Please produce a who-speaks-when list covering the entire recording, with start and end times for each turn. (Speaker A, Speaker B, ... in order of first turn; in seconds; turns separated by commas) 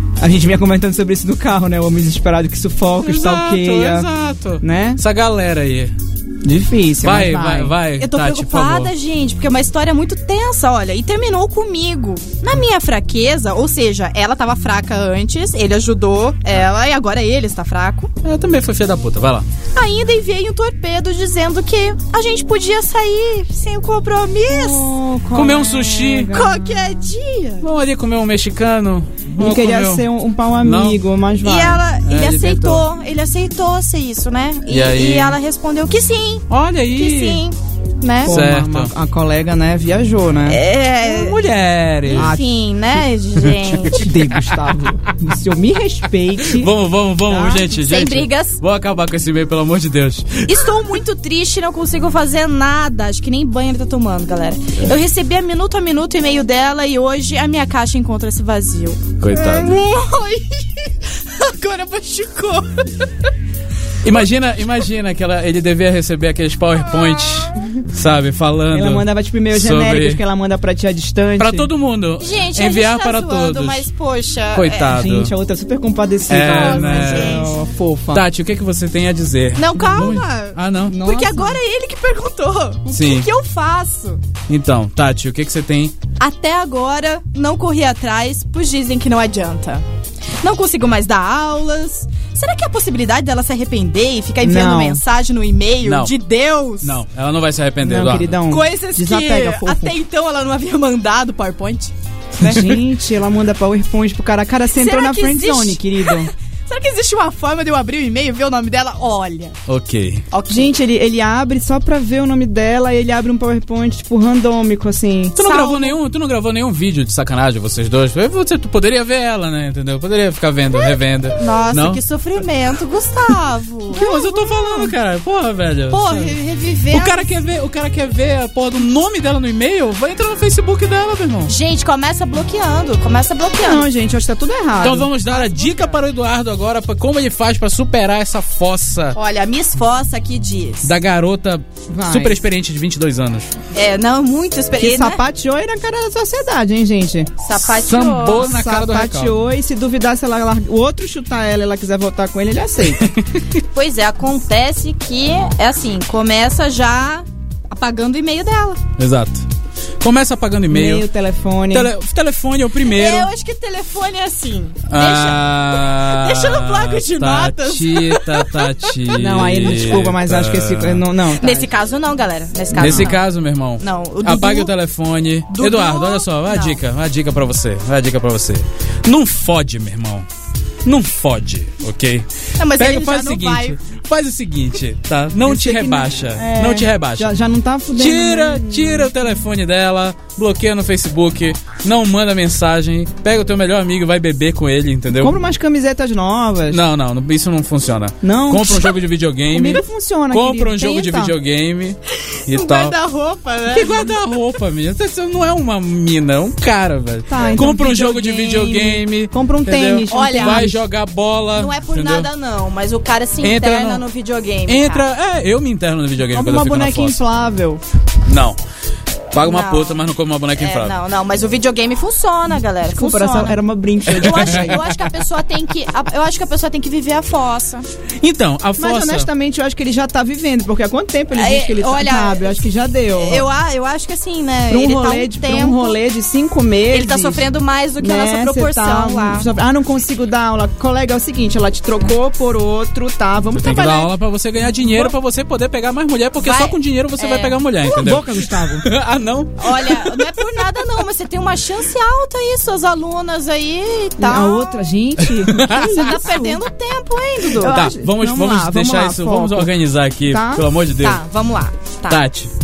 Speaker A: 0.2-4.1, Speaker B: 3.0-5.9, Speaker A: 4.6-5.0, Speaker A: 6.4-7.7, Speaker B: 7.0-8.9, Speaker C: 8.0-18.1, Speaker B: 18.2-19.4, Speaker C: 19.7-24.9, Speaker A: 24.5-26.8, Speaker B: 25.3-26.3, Speaker C: 26.3-27.7, Speaker B: 27.6-30.1, Speaker A: 29.4-31.8, Speaker B: 30.6-31.0, Speaker C: 31.4-36.4, Speaker B: 32.0-32.9, Speaker B: 34.7-35.4, Speaker B: 36.5-37.4, Speaker C: 36.9-38.4, Speaker A: 38.2-40.6, Speaker B: 38.2-38.9, Speaker C: 40.5-41.4, Speaker B: 41.0-42.3, Speaker C: 42.1-44.1, Speaker A: 42.1-42.4, Speaker A: 43.9-46.7, Speaker B: 46.5-50.5, Speaker A: 47.3-47.6, Speaker C: 47.5-48.6, Speaker C: 50.5-62.9, Speaker B: 59.2-59.8, Speaker B: 64.0-70.2, Speaker A: 68.7-71.7, Speaker B: 71.4-73.8, Speaker C: 72.2-75.0, Speaker B: 74.5-75.3, Speaker A: 74.9-78.2, Speaker B: 76.3-77.4, Speaker C: 76.4-77.6, Speaker B: 78.1-81.0, Speaker C: 79.5-84.2, Speaker A: 80.9-81.6, Speaker B: 82.9-83.3, Speaker B: 84.5-86.0, Speaker C: 86.2-89.8, Speaker C: 90.4-97.0, Speaker A: 94.4-95.0, Speaker B: 95.8-96.1, Speaker B: 96.8-98.4, Speaker A: 97.8-99.9, Speaker C: 98.5-102.6, Speaker A: 102.4-106.3, Speaker B: 102.4-102.7, Speaker C: 104.7-109.5, Speaker B: 109.7-110.2, Speaker C: 110.3-110.7, Speaker A: 110.5-115.4, Speaker B: 115.3-122.0, Speaker C: 115.4-116.0, Speaker C: 121.4-124.9, Speaker B: 123.9-126.4, Speaker C: 125.9-127.4, Speaker B: 126.9-131.5, Speaker C: 131.5-133.9, Speaker A: 133.6-135.9, Speaker B: 134.8-139.2, Speaker C: 135.3-135.9, Speaker C: 139.1-140.9, Speaker B: 140.8-143.5, Speaker A: 141.9-142.4, Speaker C: 143.7-145.2, Speaker A: 144.8-147.3, Speaker C: 147.4-148.6, Speaker B: 147.6-149.4, Speaker A: 148.2-153.1, Speaker C: 153.6-158.8, Speaker B: 159.0-159.4, Speaker B: 160.0-161.1, Speaker A: 160.7-161.9, Speaker B: 161.7-163.3, Speaker C: 162.9-169.1, Speaker B: 164.9-171.0, Speaker A: 169.1-171.7, Speaker C: 171.4-173.2, Speaker A: 172.7-173.1, Speaker B: 172.7-180.3, Speaker C: 173.8-174.7, Speaker C: 175.5-176.8, Speaker B: 180.8-187.3, Speaker C: 182.6-183.8, Speaker A: 185.4-189.1, Speaker B: 187.9-195.4, Speaker A: 195.2-196.8, Speaker B: 196.7-202.9, Speaker A: 198.2-199.0, Speaker A: 199.5-201.3, Speaker C: 202.3-204.1, Speaker B: 203.7-212.3, Speaker A: 207.3-210.8, Speaker C: 210.1-210.7, Speaker C: 211.5-215.1, Speaker B: 213.4-214.0, Speaker B: 214.7-217.2, Speaker A: 216.3-217.8, Speaker B: 218.2-218.6, Speaker B: 219.3-220.9, Speaker C: 219.4-220.0, Speaker C: 220.6-223.6, Speaker A: 222.9-224.8, Speaker C: 224.1-227.8, Speaker B: 228.2-229.3, Speaker A: 228.8-233.4, Speaker C: 231.3-236.0, Speaker A: 234.7-237.4, Speaker C: 236.9-239.5, Speaker A: 238.0-244.1, Speaker B: 243.5-250.2, Speaker C: 246.4-247.6, Speaker A: 247.9-248.9, Speaker C: 249.6-254.7, Speaker A: 254.2-256.6, Speaker B: 255.2-255.9, Speaker C: 255.7-257.9, Speaker A: 257.6-259.7, Speaker B: 257.6-261.2, Speaker A: 260.3-260.6, Speaker C: 261.0-262.2, Speaker B: 262.1-262.5